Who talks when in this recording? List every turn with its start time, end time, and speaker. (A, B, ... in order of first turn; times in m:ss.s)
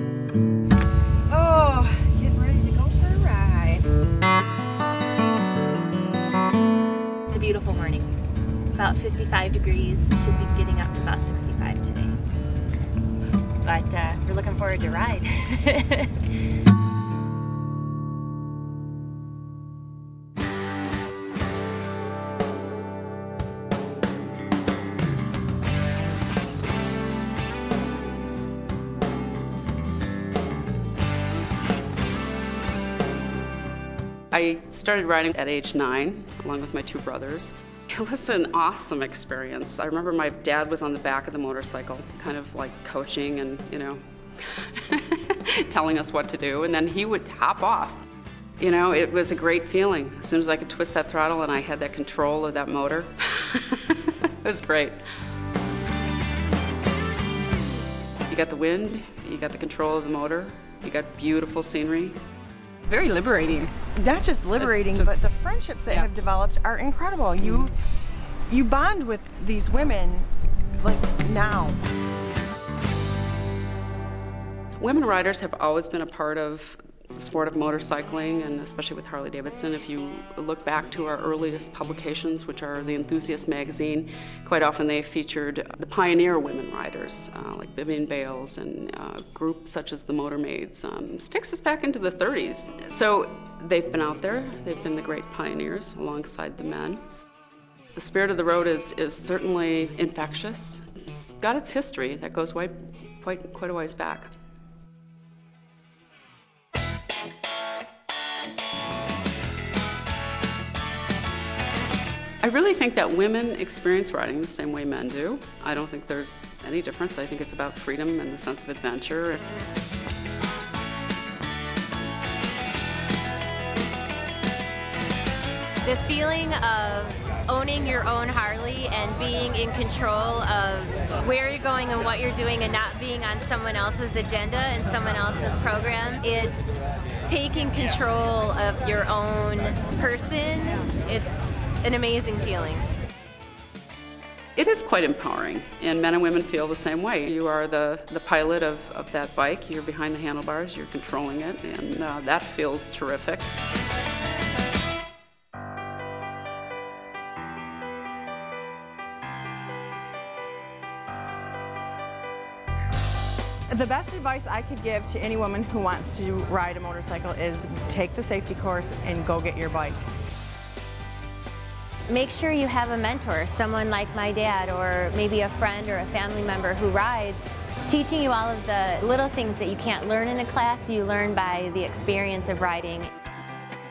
0:07.3-0:08.1 A
0:08.7-0:12.2 A
0:13.6-0:16.3 A
0:34.3-0:48.0 B
0:48.6-0:55.0 B
0:58.3-1:02.2 B
1:02.9-1:03.7 B
1:03.9-1:07.7 C
1:04.5-1:05.2 B
1:05.9-1:06.3 B
1:07.4-1:07.7 B
1:08.5-1:10.3 C
1:10.8-1:11.8 C
1:14.8-1:37.0 B
1:37.9-1:44.3 B
1:52.4-1:59.4 B
2:05.8-2:22.8 A
2:24.5-2:33.5 B
2:43.7-2:50.0 C
2:52.1-3:03.1 A